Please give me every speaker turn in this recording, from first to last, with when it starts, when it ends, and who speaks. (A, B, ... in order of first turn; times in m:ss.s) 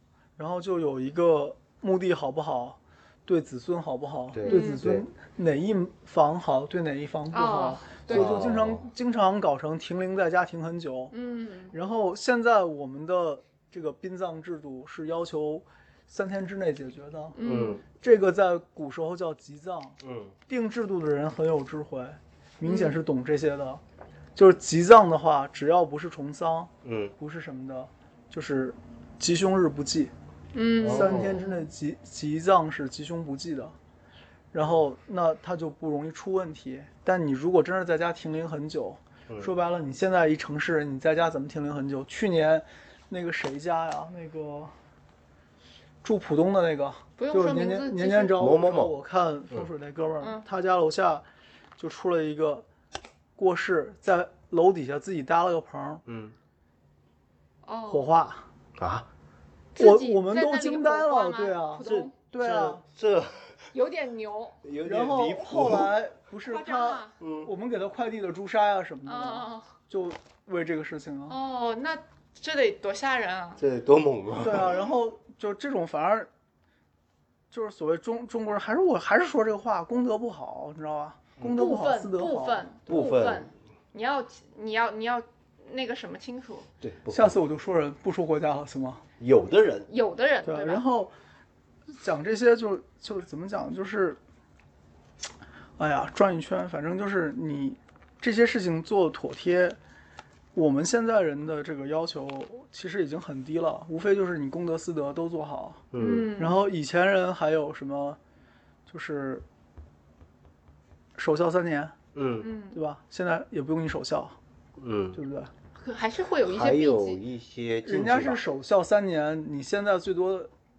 0:00.4-0:11.1 A
0:04.3-0:05.0 B
0:04.4-0:04.8 C
0:07.3-0:08.4 C
0:08.1-0:08.8 B
0:11.1-0:11.7 C
0:11.7-0:23.8 A
0:17.4-0:17.8 C
0:17.4-0:17.8 B
0:20.0-0:20.3 B
0:22.6-0:23.0 C
0:24.3-0:30.1 A
0:26.8-0:27.1 B
0:30.5-0:31.6 C
0:30.8-0:31.4 B
0:30.8-0:33.7 A
0:34.5-0:44.7 A
0:46.0-0:51.2 A
0:47.2-0:48.4 C
0:48.4-0:48.9 B
0:50.2-0:50.4 C
0:51.8-0:52.7 A
0:53.4-0:56.0 A
0:56.0-0:56.4 B
0:57.6-0:58.1 C
0:57.9-0:58.4 A
0:58.8-0:59.1 B
0:59.8-1:02.1 C
0:59.8-1:02.8 A
1:01.8-1:03.7 B
1:03.7-1:04.6 C
1:04.6-1:05.9 B
1:04.8-1:11.4 A
1:06.5-1:07.2 C
1:07.2-1:07.5 B
1:09.0-1:09.7 C
1:11.3-1:13.6 C
1:13.6-1:14.8 B
1:14.4-1:16.3 A
1:17.5-1:22.7 A
1:21.5-1:26.7 C
1:22.9-1:23.5 B
1:26.8-1:27.4 B
1:27.1-1:29.0 A
1:29.2-1:29.9 B
1:29.9-1:30.8 C
1:30.4-1:31.1 A
1:31.9-1:34.2 A
1:35.8-1:39.8 A
1:40.5-1:45.8 A
1:45.9-1:46.3 B
1:46.0-1:46.6 C
1:46.4-1:48.2 A
1:48.9-1:49.4 A
1:51.2-1:52.0 A
1:52.1-1:52.5 B
1:52.4-1:52.8 C
1:52.7-1:54.4 A
1:54.8-1:55.2 B
1:55.1-1:55.5 A
1:55.8-1:57.2 C
1:56.4-1:58.5 B
1:57.8-2:00.5 A